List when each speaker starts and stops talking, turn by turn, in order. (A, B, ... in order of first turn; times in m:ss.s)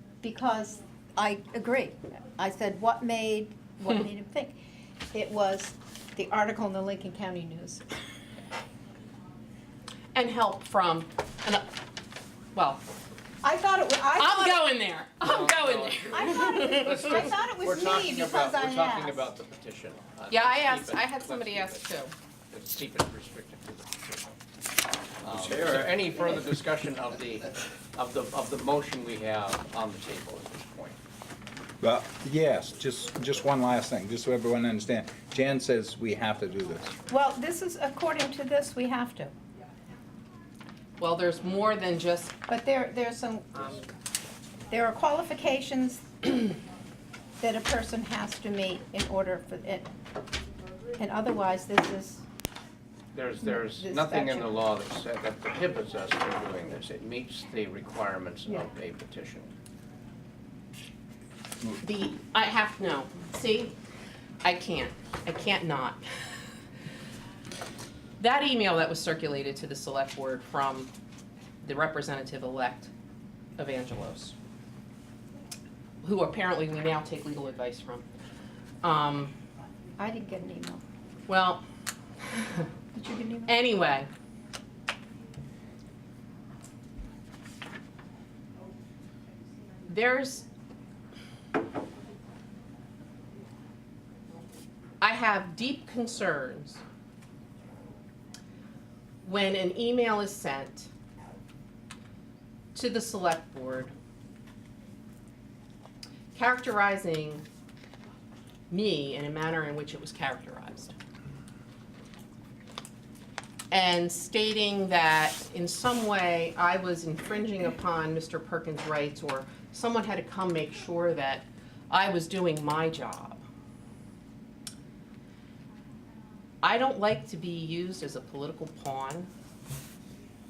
0:00.2-0:04.6 A
0:05.1-0:07.8 A
0:10.1-0:11.7 B
0:12.5-0:12.8 B
0:13.4-0:14.6 A
0:14.2-0:17.3 B
0:15.2-0:21.9 C
0:16.1-0:19.3 A
0:20.3-0:22.1 B
0:22.5-0:24.3 C
0:25.2-0:31.0 C
0:25.3-0:25.9 D
0:31.8-0:36.9 D
0:37.1-0:39.3 A
0:41.0-0:42.4 B
0:42.5-0:43.8 A
0:44.7-0:46.4 A
0:47.4-0:49.9 A
0:51.0-0:52.2 A
0:53.1-0:59.5 C
0:53.4-0:54.5 A
1:01.8-1:03.8 B
1:04.4-1:06.0 B
1:08.2-1:10.9 B
1:11.6-1:12.9 B
1:13.6-1:14.3 B
1:16.0-1:18.1 B
1:18.8-1:19.3 B
1:20.0-1:20.8 A
1:21.3-1:21.6 B
1:22.9-1:23.5 A
1:23.5-1:24.1 B
1:29.9-1:30.4 B
1:35.0-1:36.8 B
1:39.2-1:40.9 B
1:42.7-1:43.9 B
1:46.3-1:47.4 B
1:48.7-1:50.9 B
1:53.7-2:03.4 B
2:06.6-2:09.3 B